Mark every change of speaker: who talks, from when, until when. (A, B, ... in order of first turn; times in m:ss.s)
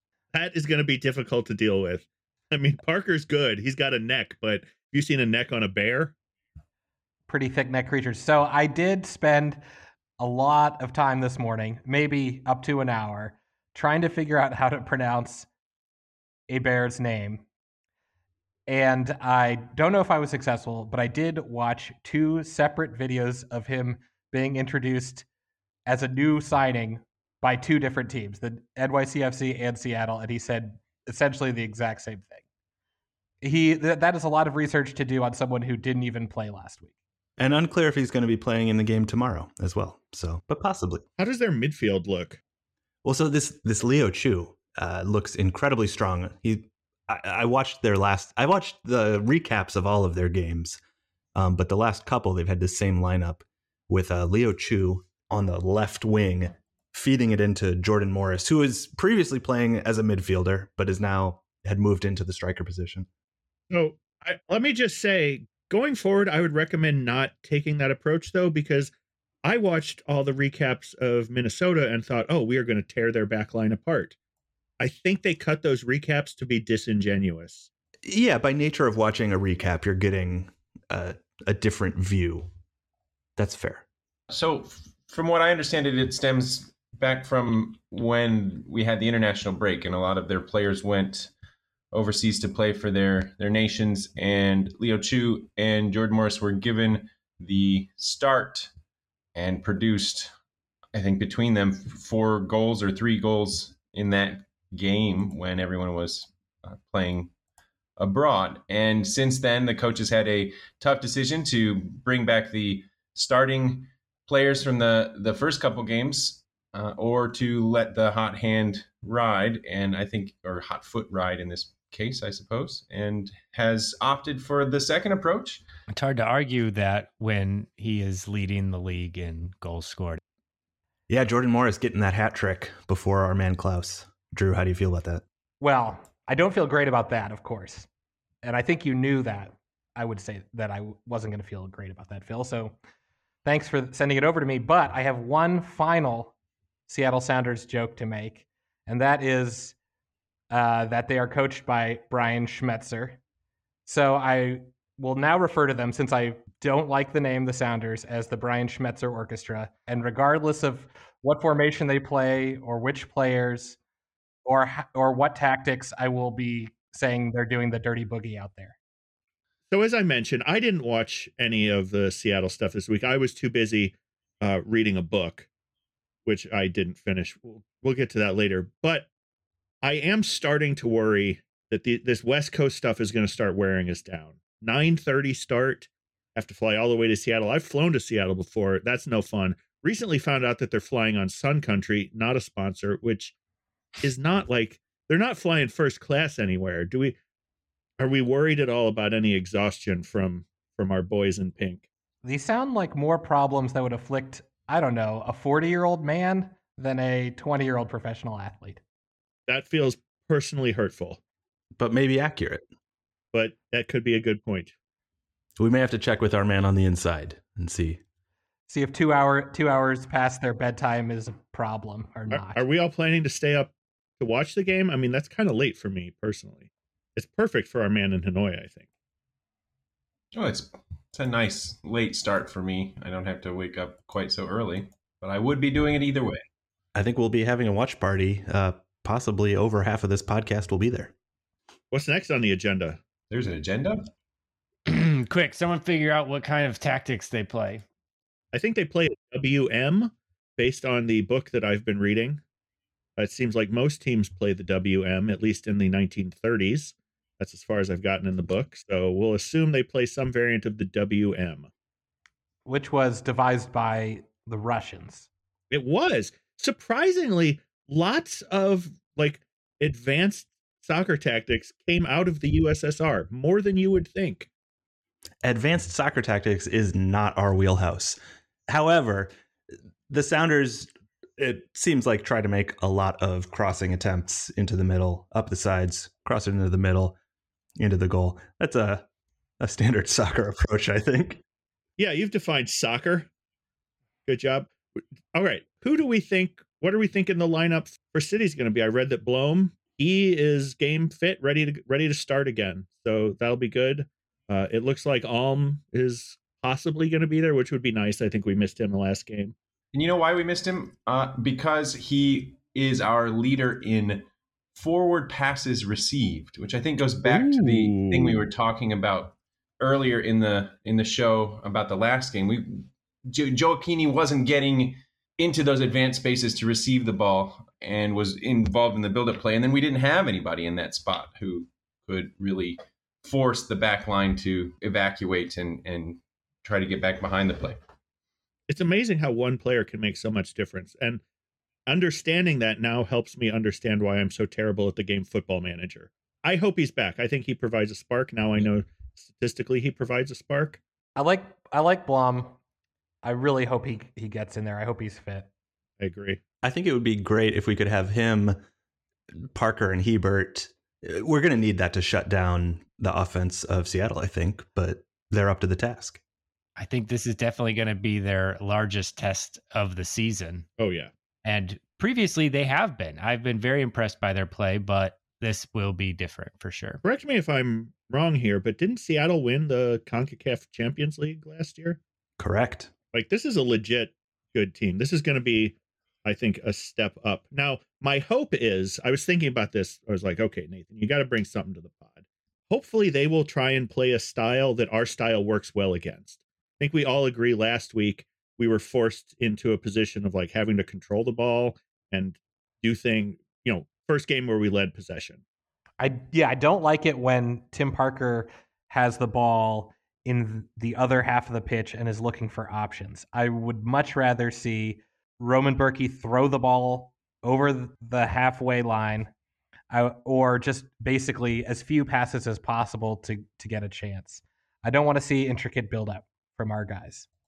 0:00.3-0:06.1 A
0:07.3-0:09.6 B
0:10.2-0:15.5 B
0:16.5-0:17.4 B
0:18.7-0:25.3 B
0:25.9-0:32.4 B
0:33.4-0:36.9 B
0:37.4-0:41.0 C
0:41.2-0:42.4 A
0:43.0-0:50.8 C
0:51.4-1:03.1 C
1:03.7-1:08.9 A
1:09.4-1:14.2 A
1:14.8-1:17.7 A
1:18.0-1:22.5 C
1:23.4-1:23.8 C
1:24.3-1:31.3 D
1:31.9-1:38.7 D
1:39.4-1:40.3 D
1:40.9-1:47.3 D
1:48.0-2:05.6 D
2:05.9-2:10.2 E
2:11.1-2:15.2 C
2:15.6-2:17.9 B
2:18.4-2:22.8 B
2:23.4-2:26.3 B
2:26.9-2:29.8 B
2:30.5-2:33.2 B
2:33.9-2:43.8 B
2:44.4-2:48.8 B
2:49.7-2:55.5 A
2:56.3-2:59.1 A
2:59.8-3:13.3 A
3:14.0-3:17.2 A
3:18.0-3:21.9 A
3:22.2-3:28.8 B
3:29.5-3:31.2 A
3:31.8-3:32.6 C
3:33.3-3:34.7 A
3:35.6-3:38.0 C
3:38.7-3:42.6 B
3:42.3-3:48.8 A
3:50.3-3:56.4 D
3:57.0-4:01.1 C
4:01.9-4:03.0 A
4:03.3-4:04.0 D
4:04.9-4:07.8 E
4:08.5-4:12.4 A
4:13.2-4:21.7 A
4:22.7-4:25.3 B
4:25.7-4:34.5 A
4:35.4-4:39.3 C
4:40.1-4:47.2 C
4:47.8-4:49.0 C
4:49.6-4:51.4 C
4:52.0-4:53.3 A
4:54.3-4:54.8 A
4:55.3-5:09.5 A
5:09.9-5:37.8 D
5:17.2-5:18.4 A
5:38.7-5:41.2 A
5:41.9-5:50.8 A
5:51.2-5:52.6 B
5:53.2-5:55.5 B
5:56.0-5:56.4 A
5:56.6-5:58.6 C
5:59.5-6:06.2 C
6:06.8-6:10.7 E
6:10.8-6:11.1 A
6:11.4-6:17.0 E
6:17.0-6:22.0 A
6:22.4-6:22.9 C
6:23.1-6:45.4 A
6:46.0-6:59.3 B
6:59.9-7:07.3 B